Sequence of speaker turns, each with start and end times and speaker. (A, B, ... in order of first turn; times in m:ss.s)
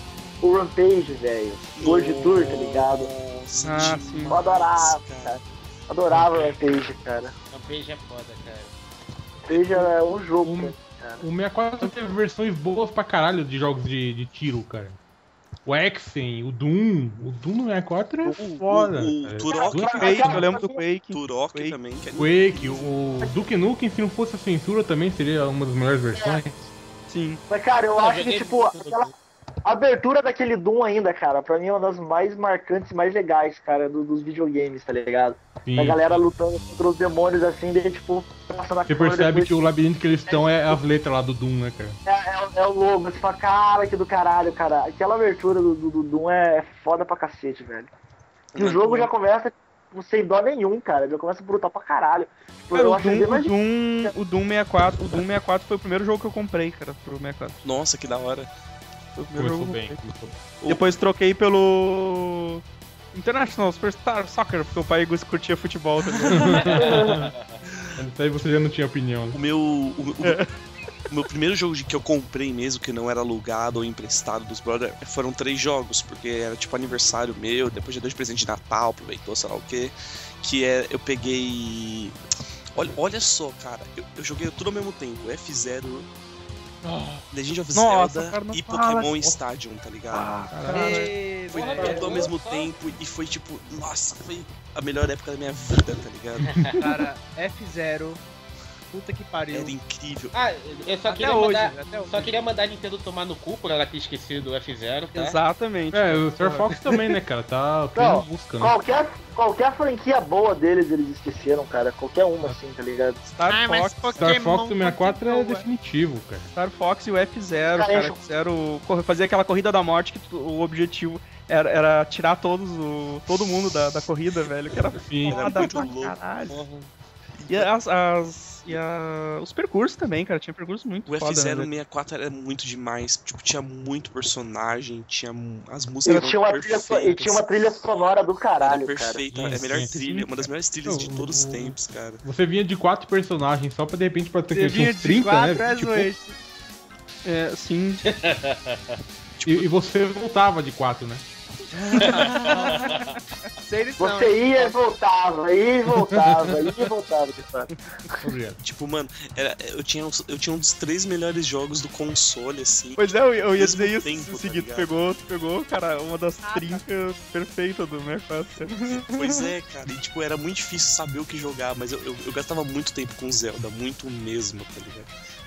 0:00.4-0:03.1 A
0:01.7-0:05.4 B
0:03.6-0:04.4 C
0:04.3-0:07.3 A
0:06.1-0:06.5 D
0:07.5-0:08.7 E
0:09.4-0:11.2 A
0:09.5-0:09.9 B
0:10.4-0:15.0 D
0:15.6-0:20.4 D
0:18.2-0:20.4 B
0:19.5-0:20.8 A
0:20.0-0:21.8 C
0:21.1-0:23.0 B
0:22.2-0:26.7 D
0:26.2-0:26.4 A
0:27.1-0:27.4 C
0:27.5-0:29.1 A
0:28.0-0:29.1 E
0:29.6-0:39.6 A
0:35.6-0:36.2 D
0:38.9-0:42.0 D
0:40.3-0:40.8 A
0:42.0-0:47.9 A
0:48.5-0:49.1 B
0:48.6-0:54.1 A
0:52.7-0:57.6 C
0:57.6-0:58.5 B
0:59.2-1:00.0 C
0:59.3-1:00.4 D
1:00.6-1:02.6 C
1:03.1-1:06.8 C
1:06.3-1:07.1 B
1:06.3-1:07.3 D
1:07.0-1:07.6 E
1:08.0-1:09.4 D
1:09.3-1:10.4 B
1:10.2-1:10.5 C
1:11.1-1:22.2 B
1:22.7-1:26.1 B
1:26.8-1:27.2 F
1:27.3-1:30.4 B
1:27.7-1:29.4 C
1:30.4-1:32.2 F
1:30.5-1:31.1 C
1:31.5-1:36.6 B
1:31.5-1:32.7 E
1:36.6-1:38.2 F
1:38.9-1:39.8 F
1:39.5-1:40.3 B
1:40.3-1:45.4 E
1:41.0-1:42.3 F
1:45.1-1:46.7 C
1:45.9-1:48.7 D
1:47.9-1:53.2 A
1:53.3-1:54.4 C
1:53.4-1:55.6 F
1:54.2-1:56.5 D
1:56.5-2:06.7 C
1:57.7-1:58.2 A
2:05.0-2:05.5 D
2:05.2-2:06.2 B
2:06.4-2:06.9 E
2:07.5-2:11.7 C
2:11.1-2:17.5 B
2:16.0-2:19.2 A
2:18.6-2:22.2 B
2:19.3-2:19.9 D
2:19.9-2:20.4 C
2:20.8-2:26.1 D
2:24.5-2:26.4 F
2:27.2-2:28.0 C
2:28.0-2:29.0 E
2:29.4-2:29.7 B
2:29.4-2:31.2 D
2:31.9-2:33.0 F
2:32.0-2:32.8 B
2:32.0-2:33.0 E
2:33.6-2:34.7 F
2:34.0-2:37.7 A
2:38.2-2:38.6 D
2:38.6-2:43.0 B
2:43.0-2:49.3 C
2:43.5-2:44.9 B
2:46.4-2:46.8 F
2:49.1-2:55.1 B